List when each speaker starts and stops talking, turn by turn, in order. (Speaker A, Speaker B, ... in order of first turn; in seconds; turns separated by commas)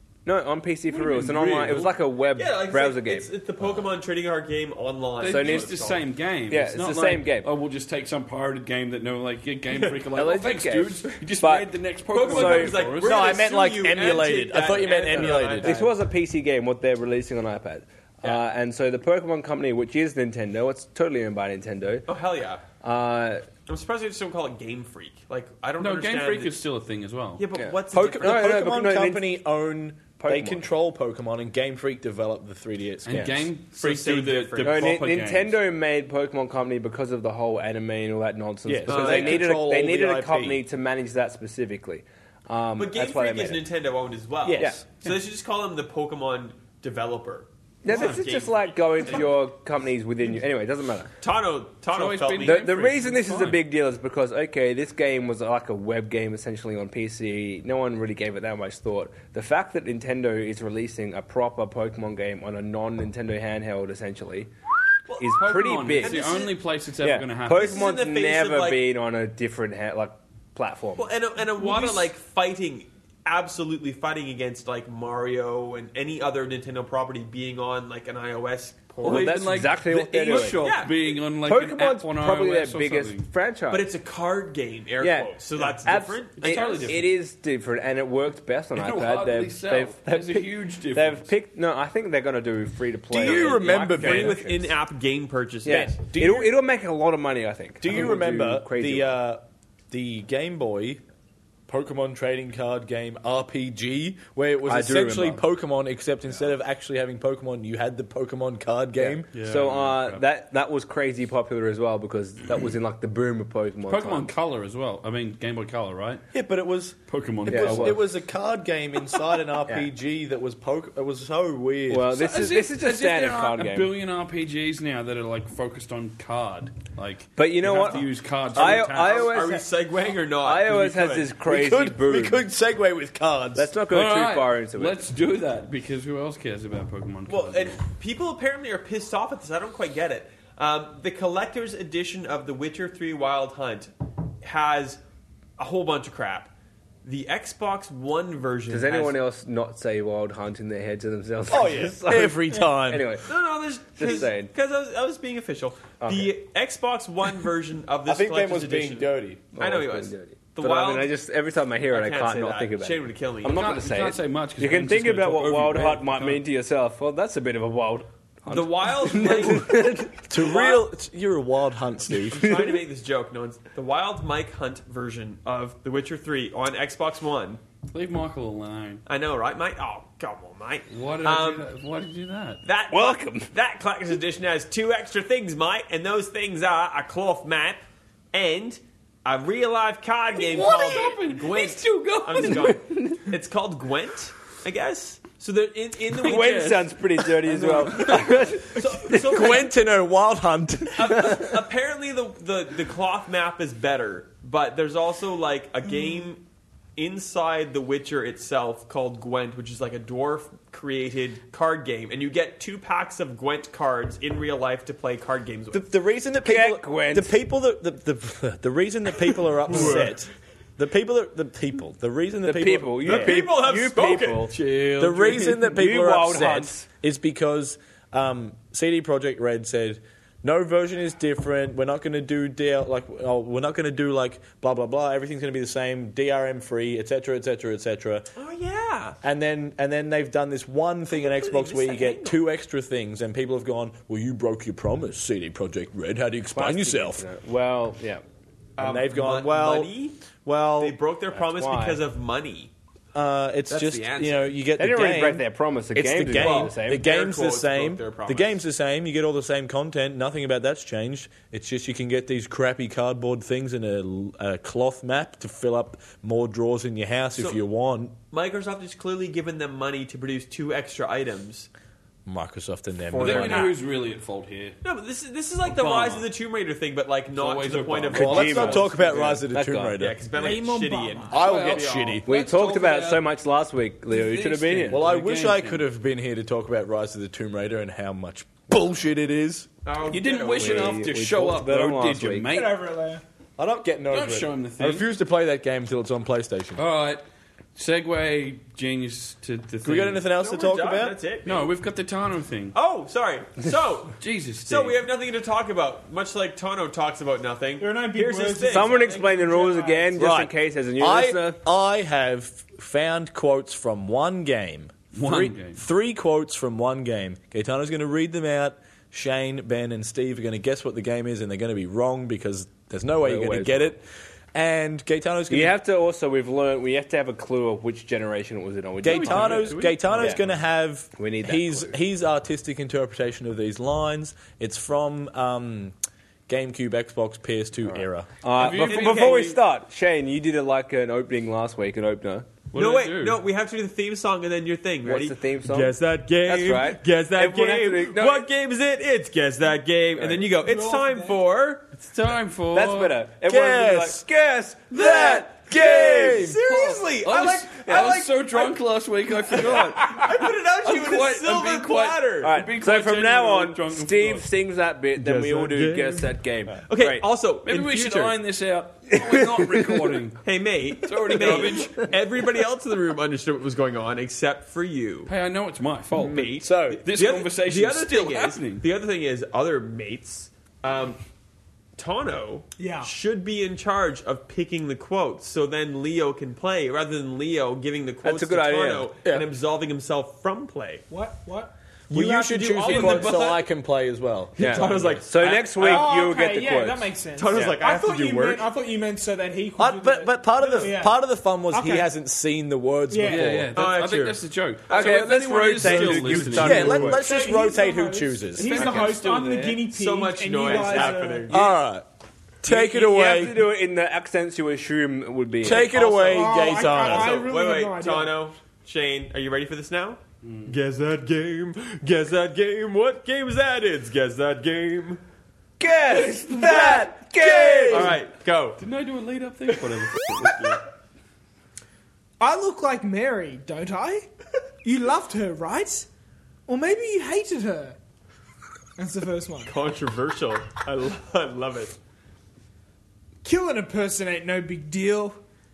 Speaker A: 0.2-3.3, Speaker B: 0.9-2.0, Speaker C: 2.3-6.0, Speaker B: 5.2-13.2, Speaker A: 5.3-5.8, Speaker A: 6.5-7.5, Speaker A: 10.1-11.7, Speaker C: 12.1-15.9, Speaker A: 12.2-12.8, Speaker D: 13.0-15.8, Speaker A: 15.1-22.1, Speaker C: 22.1-22.6, Speaker A: 22.8-23.4, Speaker C: 23.7-26.6, Speaker B: 25.8-27.4, Speaker C: 27.4-28.5, Speaker A: 27.6-29.3, Speaker D: 27.9-33.5, Speaker A: 30.2-30.7, Speaker B: 33.0-35.6, Speaker C: 33.8-35.0, Speaker A: 34.6-43.6, Speaker D: 38.6-40.6, Speaker C: 38.9-39.4, Speaker C: 42.8-49.3, Speaker D: 44.4-44.8, Speaker A: 47.8-51.1, Speaker C: 51.2-52.7, Speaker B: 51.9-53.6, Speaker A: 52.4-64.5, Speaker C: 65.1-65.3, Speaker A: 65.2-66.2, Speaker B: 65.3-67.8, Speaker C: 66.0-66.6, Speaker A: 67.0-71.1, Speaker C: 67.5-68.8, Speaker C: 71.0-79.4, Speaker E: 71.6-71.9, Speaker B: 79.0-83.3, Speaker A: 79.0-80.7, Speaker C: 80.3-81.1, Speaker A: 81.4-83.9, Speaker C: 83.7-87.0, Speaker A: 85.0-94.7, Speaker B: 86.4-87.1, Speaker B: 88.7-91.3, Speaker D: 93.1-94.4, Speaker C: 93.2-96.0, Speaker A: 95.6-99.1, Speaker D: 95.7-96.5, Speaker D: 97.8-101.0, Speaker D: 101.7-109.3, Speaker A: 104.7-105.4, Speaker A: 109.0-114.3, Speaker B: 109.3-110.2, Speaker B: 113.9-116.2, Speaker D: 116.3-122.1, Speaker B: 117.1-118.0, Speaker A: 117.5-118.0, Speaker A: 121.9-123.9, Speaker B: 122.1-129.4, Speaker A: 127.4-129.6, Speaker C: 128.5-131.3, Speaker A: 130.4-132.4, Speaker D: 131.4-133.7, Speaker A: 133.5-135.0, Speaker B: 133.9-137.8, Speaker C: 137.3-143.9, Speaker C: 144.4-145.0, Speaker C: 145.6-146.5, Speaker C: 147.0-149.2, Speaker A: 148.7-153.3, Speaker D: 151.5-153.1, Speaker C: 153.2-161.1, Speaker A: 153.9-154.5, Speaker A: 156.0-156.3, Speaker D: 158.1-159.4, Speaker A: 159.5-170.3, Speaker C: 161.9-163.6, Speaker B: 163.4-166.4, Speaker C: 168.5-170.9, Speaker D: 170.3-172.5, Speaker C: 172.1-177.6, Speaker A: 172.4-172.7, Speaker B: 177.9-179.0, Speaker C: 179.1-181.7, Speaker B: 180.9-182.6, Speaker C: 182.6-187.8, Speaker A: 182.9-183.5, Speaker C: 188.3-196.8, Speaker B: 190.3-192.8, Speaker A: 192.4-193.2, Speaker A: 196.2-199.3, Speaker B: 196.2-198.4, Speaker C: 197.6-199.7, Speaker D: 199.1-201.3, Speaker C: 200.9-206.4, Speaker C: 206.9-215.9, Speaker D: 215.7-223.4, Speaker A: 216.4-217.4, Speaker C: 219.7-220.2, Speaker A: 222.4-224.5, Speaker C: 223.0-225.6, Speaker D: 225.0-238.3, Speaker A: 225.6-226.9, Speaker C: 238.4-239.2, Speaker D: 239.2-247.2, Speaker C: 241.1-242.4, Speaker A: 246.5-248.2, Speaker C: 248.8-250.2, Speaker D: 248.8-249.9, Speaker D: 250.4-250.9, Speaker C: 250.8-252.7, Speaker A: 251.3-252.0, Speaker D: 253.1-268.2, Speaker C: 253.7-254.5, Speaker A: 254.8-257.0, Speaker C: 256.3-258.6, Speaker C: 267.4-267.6, Speaker C: 268.3-271.7, Speaker D: 272.2-273.7, Speaker C: 273.1-273.8, Speaker B: 273.1-274.8, Speaker C: 274.8-278.9, Speaker B: 275.6-276.3, Speaker B: 277.3-279.4, Speaker D: 278.1-280.2, Speaker A: 278.2-280.0, Speaker C: 279.9-282.2, Speaker E: 280.3-281.4, Speaker D: 281.3-282.2, Speaker B: 281.3-283.3, Speaker A: 282.2-285.1, Speaker B: 284.1-285.8, Speaker D: 284.9-289.7, Speaker C: 289.8-291.0, Speaker B: 290.1-293.0, Speaker A: 290.6-292.6, Speaker E: 292.5-293.2, Speaker D: 293.6-296.8, Speaker B: 294.1-295.0, Speaker B: 296.8-297.2, Speaker B: 297.7-300.2, Speaker D: 299.8-301.2, Speaker C: 300.4-301.7, Speaker B: 301.4-302.8, Speaker C: 302.7-309.1, Speaker B: 304.2-305.0, Speaker E: 307.8-310.2, Speaker A: 308.7-311.6, Speaker D: 310.2-325.8, Speaker B: 315.1-315.8, Speaker A: 323.2-323.9, Speaker A: 325.5-330.4, Speaker B: 329.0-330.6, Speaker D: 329.0-335.9, Speaker A: 331.1-331.9, Speaker D: 336.5-338.3, Speaker A: 338.4-342.5, Speaker B: 338.5-339.6, Speaker C: 338.6-339.6, Speaker B: 342.7-343.4, Speaker C: 342.7-351.9, Speaker A: 345.0-348.5, Speaker E: 350.5-351.4, Speaker B: 351.9-353.2, Speaker A: 352.7-355.1, Speaker D: 353.4-354.3, Speaker D: 354.9-356.6, Speaker C: 355.0-358.8, Speaker B: 356.5-364.5, Speaker C: 359.5-362.6, Speaker A: 362.4-367.2, Speaker C: 365.2-368.4, Speaker B: 367.6-370.4, Speaker A: 369.1-370.1, Speaker C: 370.4-375.3, Speaker B: 371.0-372.1, Speaker B: 375.3-378.8, Speaker C: 376.1-381.2, Speaker D: 376.6-377.0, Speaker C: 382.0-391.0, Speaker E: 382.8-383.1, Speaker A: 388.2-389.1, Speaker E: 391.1-391.7, Speaker C: 392.1-393.6, Speaker D: 392.1-395.2, Speaker B: 392.8-393.6, Speaker C: 394.6-396.1, Speaker A: 394.6-397.7, Speaker E: 395.8-402.1, Speaker C: 397.4-398.7, Speaker D: 399.8-403.8, Speaker E: 403.1-403.6, Speaker B: 403.2-407.2, Speaker C: 403.7-405.2, Speaker A: 404.9-407.2, Speaker D: 405.8-409.0, Speaker E: 406.9-411.7, Speaker B: 408.5-409.9, Speaker C: 409.9-411.7, Speaker B: 410.7-411.2, Speaker D: 411.5-412.0, Speaker D: 412.6-413.7, Speaker A: 412.6-416.1, Speaker D: 415.6-417.4, Speaker E: 415.9-418.3, Speaker C: 416.6-425.2, Speaker B: 420.4-420.7, Speaker A: 425.8-428.1, Speaker D: 426.1-428.2, Speaker C: 427.8-428.8, Speaker B: 428.8-430.8, Speaker C: 429.7-430.7, Speaker E: 432.4-434.3, Speaker E: 434.8-436.1, Speaker E: 436.7-438.0, Speaker E: 439.0-439.7, Speaker C: 439.7-441.9, Speaker E: 443.4-445.4